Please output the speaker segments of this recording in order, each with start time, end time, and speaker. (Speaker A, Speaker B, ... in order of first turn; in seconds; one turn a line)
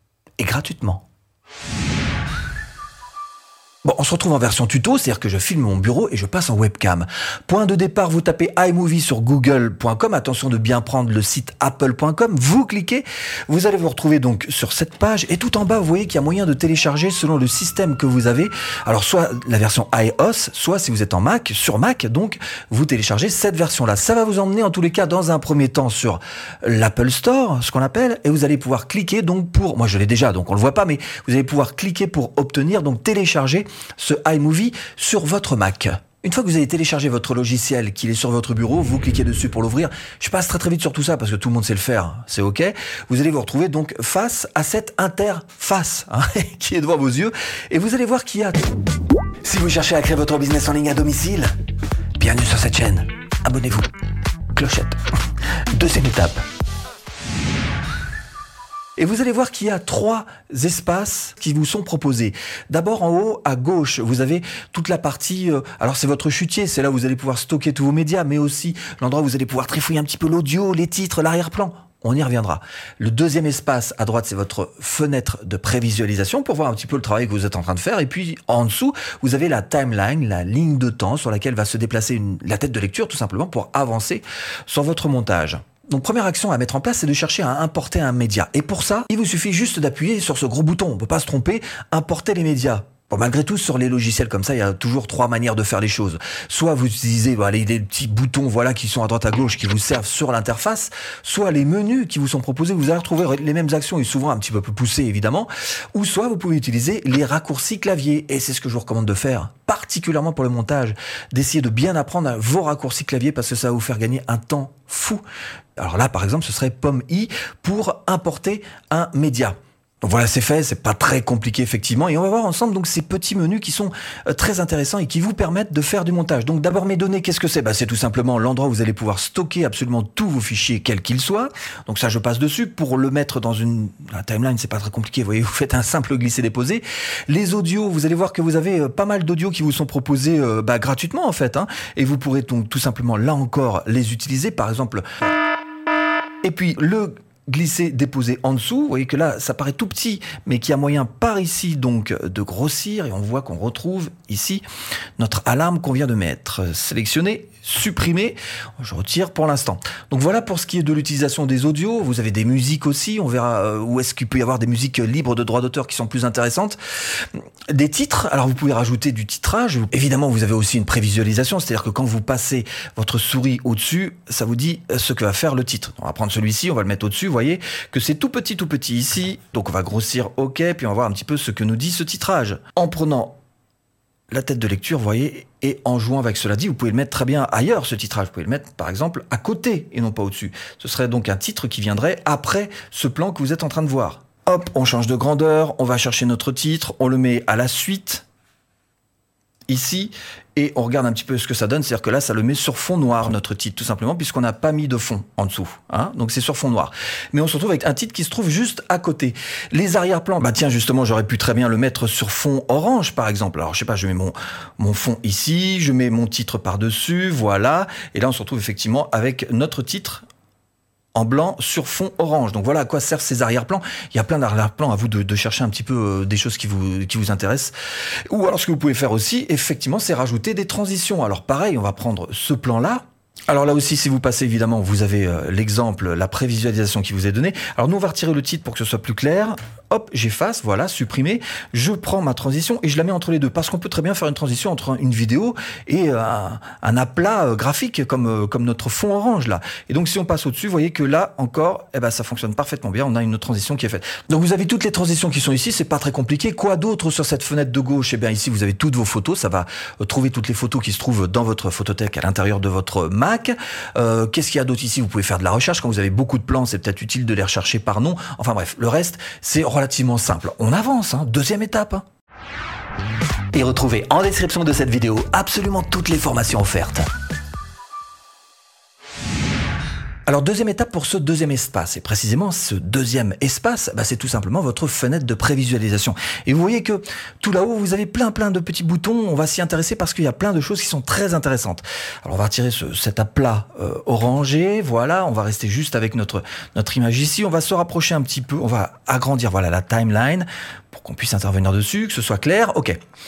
Speaker A: 0.4-1.0
Speaker A: 3.8-48.7
Speaker A: 49.4-51.5
Speaker A: 52.2-53.9
Speaker A: 54.5-55.0
Speaker A: 55.7-56.4
Speaker A: 59.0-115.2
Speaker A: 115.8-145.1
Speaker A: 146.4-154.6
Speaker A: 155.2-183.4
Speaker A: 184.3-198.2
Speaker A: 199.7-220.2
Speaker A: 221.1-227.7
Speaker A: 228.3-272.0
Speaker A: 273.5-277.1
Speaker A: 280.3-303.0